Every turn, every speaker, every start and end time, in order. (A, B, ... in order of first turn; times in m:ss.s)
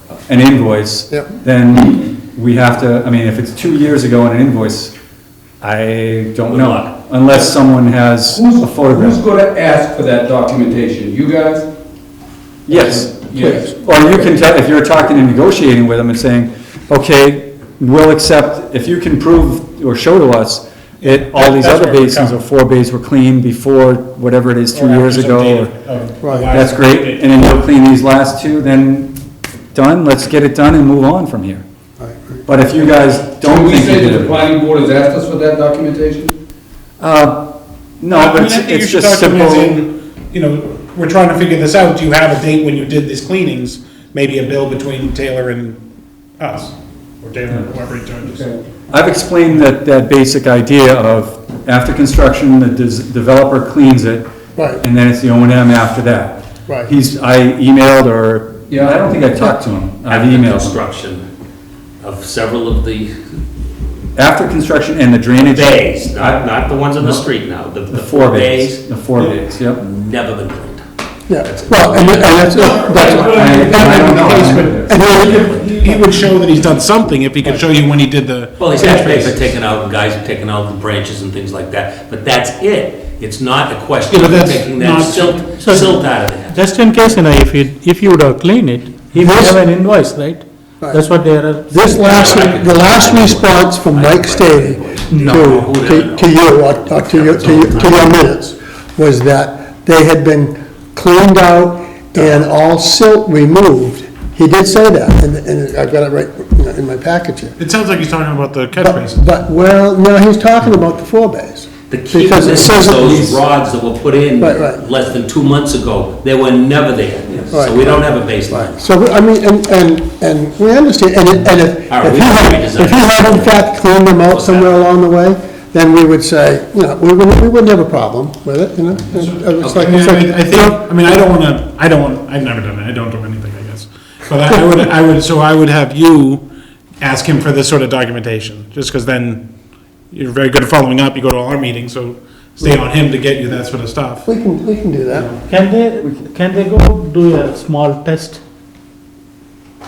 0:00.3-0:04.9 A
0:05.6-0:09.2 A
0:06.5-0:06.9 B
0:08.3-0:11.7 C
0:12.7-0:25.7 A
0:12.7-0:14.3 C
0:13.4-0:13.7 D
0:21.0-0:22.4 E
0:24.7-0:27.2 E
0:26.2-0:26.6 D
0:26.5-0:29.2 A
0:29.7-0:31.6 A
0:32.0-0:32.5 D
0:32.5-0:34.5 A
0:32.8-0:36.4 C
0:37.0-0:39.8 A
0:38.1-0:45.8 E
0:46.4-0:48.6 E
0:48.9-1:00.8 A
0:54.6-0:54.8 D
0:56.7-0:56.9 D
0:58.7-0:59.1 C
1:00.1-1:01.2 B
1:02.0-1:03.1 B
1:04.2-1:06.5 A
1:05.5-1:08.8 B
1:07.9-1:09.8 A
1:09.8-1:10.8 B
1:11.3-1:16.1 D
1:11.4-1:15.8 B
1:12.6-1:14.2 E
1:13.3-1:15.0 A
1:15.4-1:19.6 E
1:18.6-1:26.6 B
1:24.1-1:25.9 E
1:26.5-1:32.1 F
1:29.2-1:29.6 D
1:31.7-1:47.6 D
1:32.0-1:38.2 B
1:35.1-1:35.4 F
1:47.6-1:49.2 E
1:48.8-1:53.4 D
1:51.9-1:58.8 B
1:53.0-1:53.3 A
1:54.4-1:54.8 D
1:57.5-2:10.8 D
2:01.9-2:03.6 B
2:04.3-2:04.8 B
2:09.4-2:16.5 E
2:17.0-2:19.5 E
2:20.1-2:24.2 E
2:24.2-2:25.3 D
2:25.2-2:25.4 E
2:25.4-2:28.4 F